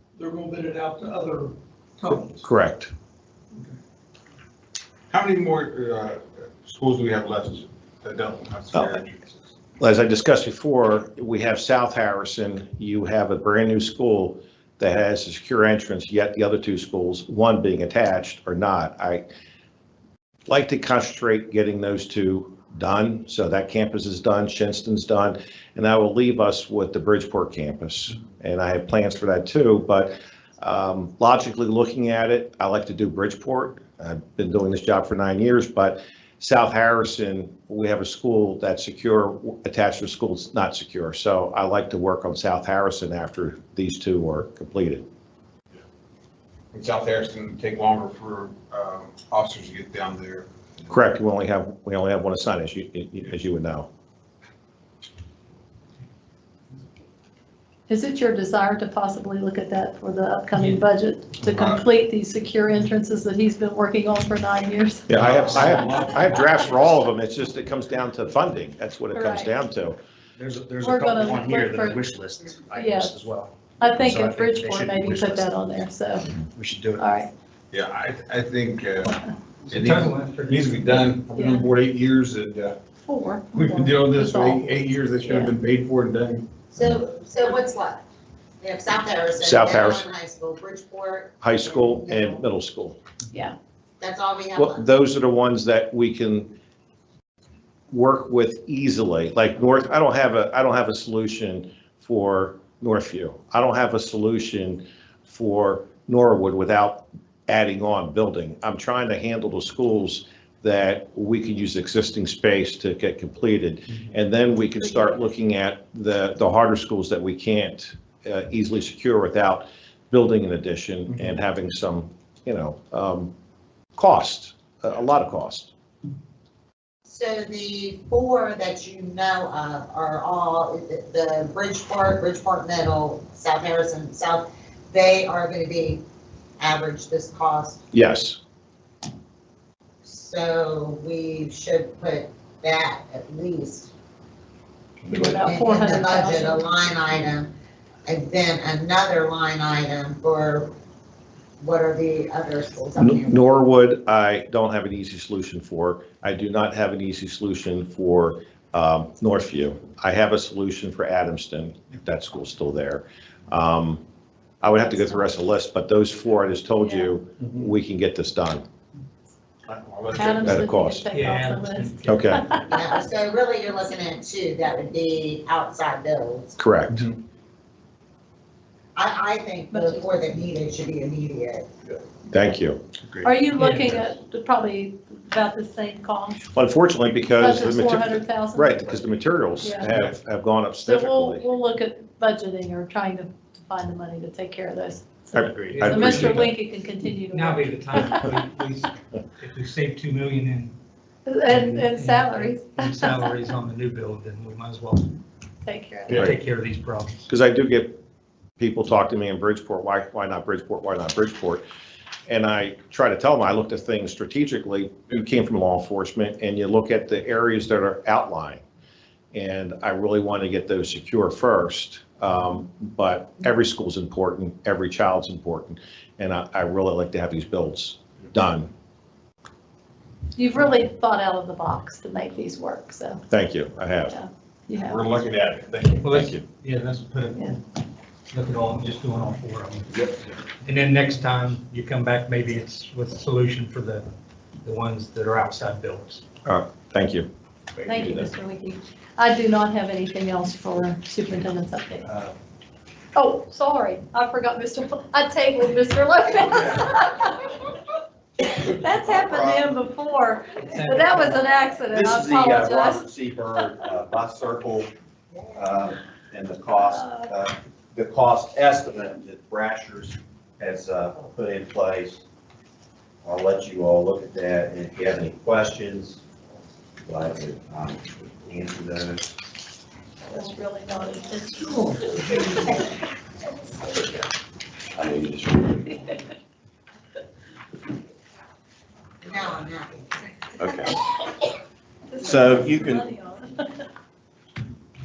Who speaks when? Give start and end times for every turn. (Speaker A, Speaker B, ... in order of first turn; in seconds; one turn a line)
Speaker A: 0.2-1.4
Speaker B: 2.4-2.9
Speaker C: 5.1-9.4
Speaker B: 8.7-9.0
Speaker B: 9.8-19.2
Speaker B: 20.5-45.0
Speaker C: 46.7-50.5
Speaker B: 50.9-53.9
Speaker D: 57.9-66.1
Speaker C: 61.4-61.8
Speaker B: 65.1-70.0
Speaker C: 65.1-66.7
Speaker D: 69.1-69.5
Speaker E: 70.4-75.5
Speaker D: 70.8-72.0
Speaker D: 72.7-73.1
Speaker D: 73.8-76.3
Speaker E: 76.4-77.1
Speaker D: 77.0-77.3
Speaker C: 77.7-82.7
Speaker A: 79.7-80.9
Speaker D: 81.3-81.7
Speaker D: 83.0-85.5
Speaker C: 83.5-86.5
Speaker F: 86.7-88.0
Speaker F: 88.6-91.4
Speaker B: 89.4-90.0
Speaker B: 91.4-93.0
Speaker F: 92.1-92.4
Speaker F: 94.0-94.8
Speaker B: 94.5-96.5
Speaker B: 97.9-123.3
Speaker B: 124.0-125.7
Speaker F: 127.1-136.0
Speaker F: 136.6-137.8
Speaker B: 137.9-138.4
Speaker F: 140.0-143.9
Speaker D: 145.1-146.6
Speaker F: 145.2-147.5
Speaker F: 148.1-150.7
Speaker F: 151.6-153.5
Speaker B: 153.0-164.0
Speaker B: 164.6-168.6
Speaker D: 166.8-167.1
Speaker C: 169.7-170.6
Speaker D: 170.1-172.9
Speaker B: 170.4-171.0
Speaker A: 171.1-172.0
Speaker B: 172.1-172.4
Speaker F: 172.7-176.6
Speaker B: 176.6-177.1
Speaker F: 178.9-181.7
Speaker D: 179.7-180.2
Speaker B: 182.3-182.8
Speaker D: 183.2-186.4
Speaker A: 183.5-184.0
Speaker B: 186.5-191.4
Speaker D: 187.4-189.0
Speaker D: 189.6-189.9
Speaker D: 190.8-198.3
Speaker B: 195.3-196.5
Speaker A: 195.7-196.6
Speaker A: 197.3-200.7
Speaker D: 201.2-203.2
Speaker A: 201.5-205.1
Speaker D: 205.6-206.2
Speaker A: 206.1-207.2
Speaker B: 207.3-207.9
Speaker B: 208.6-211.6
Speaker B: 212.3-218.6
Speaker B: 219.3-228.7
Speaker D: 230.3-233.2
Speaker B: 233.3-234.1
Speaker D: 234.1-235.1
Speaker C: 234.7-236.1
Speaker A: 236.0-237.6
Speaker B: 236.1-236.4
Speaker A: 238.3-239.9
Speaker A: 240.6-244.1
Speaker A: 244.6-246.2
Speaker B: 246.4-247.3
Speaker D: 247.8-252.1
Speaker B: 247.9-248.2
Speaker D: 253.1-257.8
Speaker D: 258.4-263.0
Speaker G: 259.1-259.8
Speaker A: 260.7-261.4
Speaker G: 261.9-264.9
Speaker F: 265.3-265.6
Speaker G: 265.5-272.2
Speaker D: 266.9-267.3
Speaker G: 273.2-276.2
Speaker G: 277.0-279.3
Speaker D: 280.3-282.8
Speaker G: 284.9-286.1
Speaker F: 289.2-290.2
Speaker G: 290.6-290.9
Speaker D: 292.1-293.9
Speaker G: 292.2-293.0